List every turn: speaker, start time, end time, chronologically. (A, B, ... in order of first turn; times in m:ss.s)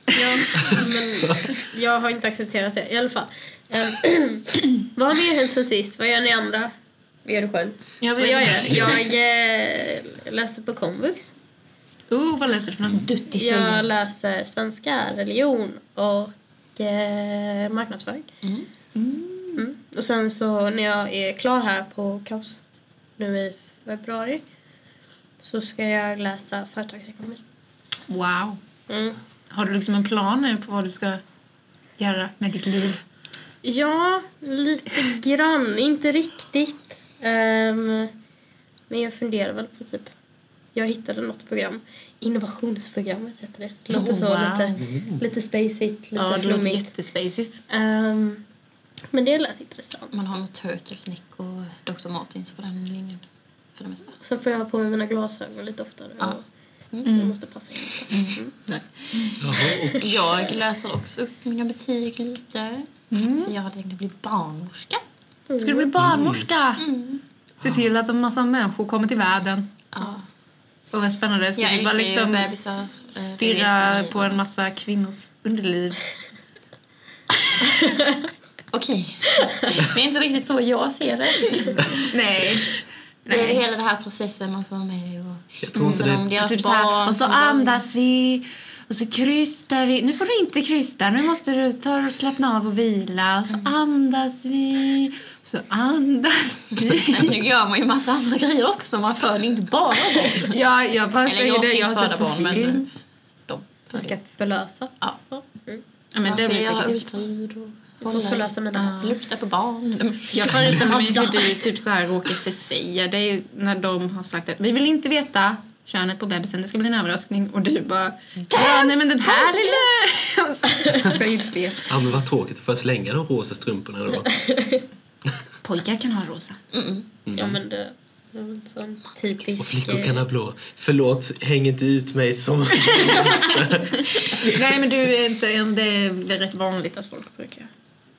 0:00.1-0:06.7 A
0:07.2-0:07.8 B
0:08.0-0:09.0 C
0:08.2-0:11.3 A
0:12.1-0:13.9 C
0:13.3-0:18.3 A
0:18.4-0:18.7 B
0:19.0-0:19.6 C
0:19.6-0:22.6 A
0:23.2-0:24.4 A
0:25.4-0:27.4 A
0:28.1-0:28.6 C
0:28.9-0:29.2 A
0:29.5-0:31.2 C
0:32.0-0:33.0 C
0:33.6-0:38.1 A
0:38.9-0:40.1 A
0:40.7-0:46.9 A
0:43.9-0:44.8 C
0:44.8-0:45.2 D
0:46.2-0:47.6 C
0:47.7-0:48.4 A
0:49.1-0:50.1 A
0:50.1-0:53.2 B
0:53.8-0:54.2 B
0:54.2-0:56.4 A
0:57.0-0:58.5 A
0:57.0-0:57.4 C
0:58.1-0:58.4 C
0:58.3-1:05.0 B
0:59.4-1:00.2 D
0:59.5-1:00.0 A
1:03.1-1:03.5 C
1:05.5-1:05.9 A
1:05.6-1:06.9 C
1:06.0-1:06.5 D
1:06.8-1:07.2 B
1:07.6-1:09.7 C
1:09.9-1:10.2 B
1:10.9-1:12.5 C
1:11.6-1:14.4 B
1:13.2-1:16.1 C
1:17.8-1:18.2 A
1:18.7-1:22.0 B
1:22.1-1:23.6 C
1:23.3-1:27.8 B
1:25.6-1:26.3 D
1:25.8-1:37.4 C
1:36.8-1:40.6 B
1:40.5-1:42.9 C
1:41.2-1:42.9 B
1:43.5-1:44.2 B
1:43.9-1:45.8 A
1:46.1-1:47.1 C
1:46.2-1:51.7 B
1:48.0-1:48.9 A
1:48.8-1:49.2 C
1:50.3-2:01.9 C
1:50.5-1:50.9 D
1:58.5-1:59.8 B
2:01.9-2:04.3 D
2:04.4-2:04.8 A
2:05.6-2:06.6 C
2:06.7-2:07.1 B
2:07.3-2:07.6 D
2:07.4-2:10.2 A
2:09.6-2:14.7 D
2:14.2-2:17.7 C